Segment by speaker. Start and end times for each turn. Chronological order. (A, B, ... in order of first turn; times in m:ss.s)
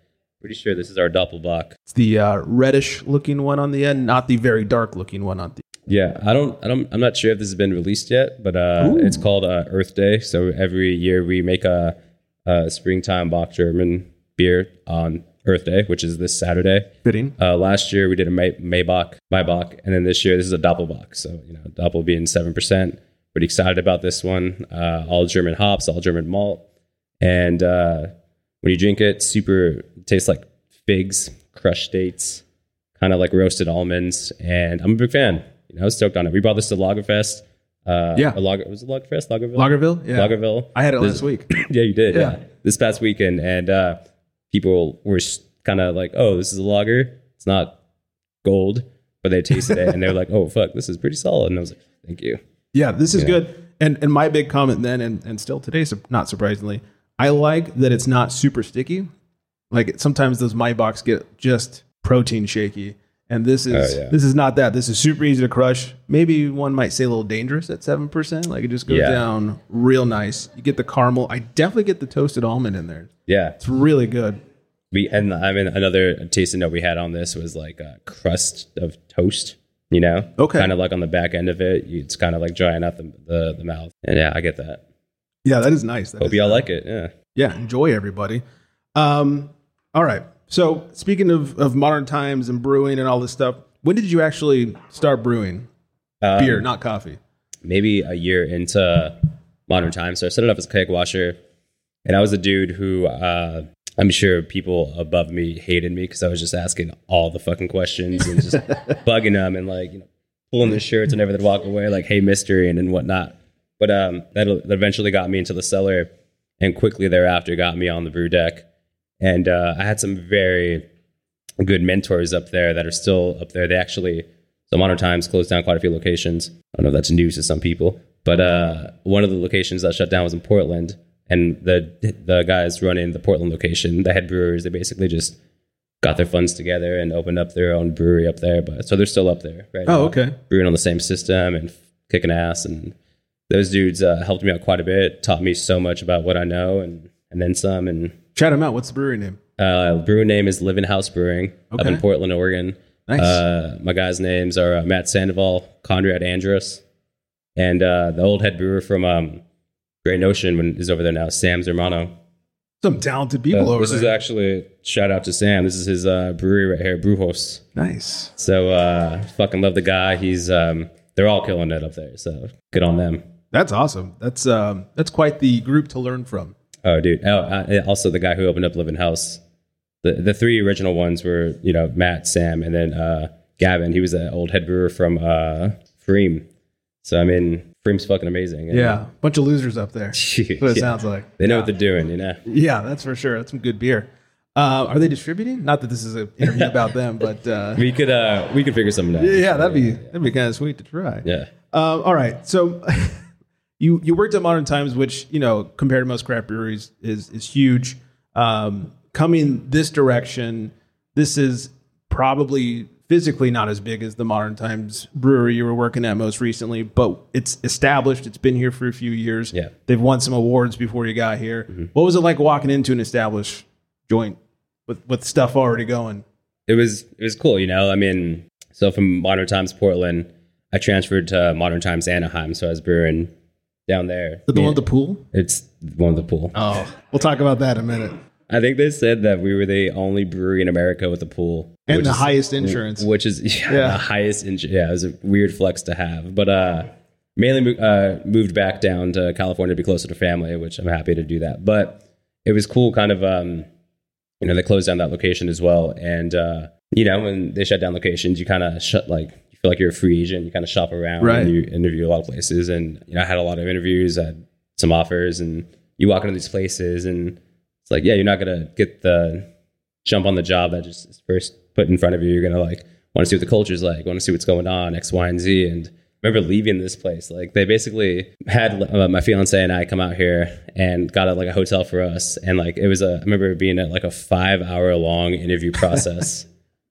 0:00.4-0:01.8 A
0:01.9-0:05.6 B
0:05.9-0:26.6 A
0:08.8-0:09.2 B
0:17.0-0:17.3 B
0:27.2-0:28.1 A
0:28.6-0:32.4 A
0:33.0-0:44.0 A
0:39.6-0:41.5 B
0:42.1-0:42.4 B
0:44.5-0:47.8 A
0:48.4-0:52.4 A
0:49.7-0:49.9 B
0:52.7-0:59.1 B
0:59.7-1:14.4 B
1:03.7-1:04.1 A
1:08.9-1:09.2 A
1:13.3-1:13.6 A
1:14.9-1:24.8 A
1:20.4-1:20.7 B
1:25.4-1:26.6 B
1:26.2-1:27.1 A
1:27.3-1:28.4 B
1:28.9-1:35.7 B
1:36.2-1:36.7 A
1:36.4-1:37.2 B
1:37.6-1:39.2 A
1:39.7-1:41.4 A
1:42.0-1:56.1 A
1:56.6-1:58.6 A
1:59.2-2:00.8 A
2:01.6-2:15.4 A
2:16.0-2:22.9 A
2:19.8-2:20.4 B
2:23.5-2:28.2 A
2:28.3-2:29.4 B
2:29.6-2:36.8 A
2:31.7-2:32.0 B
2:33.1-2:33.4 B
2:37.6-2:39.4 A
2:40.0-2:42.1 A
2:42.8-2:44.1 B
2:43.5-2:47.6 A
2:47.7-2:48.3 B
2:48.4-2:53.2 A
2:53.5-2:56.5 B
2:56.8-2:59.4 A
3:00.0-3:06.4 A
3:07.0-3:09.0 A
3:08.7-3:11.7 B
3:10.1-3:12.4 A
3:12.4-3:17.8 B
3:16.5-3:16.7 A
3:17.8-3:20.1 A
3:19.2-3:23.2 B
3:21.2-3:21.5 A
3:23.8-3:46.2 B
3:46.7-3:53.3 A
3:53.9-3:54.8 A
3:54.5-3:55.2 B
3:55.3-3:56.5 A
3:56.5-3:58.2 B
3:58.5-4:13.6 A
4:01.9-4:03.1 B
4:03.7-4:04.0 B
4:14.4-4:29.5 A
4:21.2-4:21.5 B
4:30.0-4:46.5 A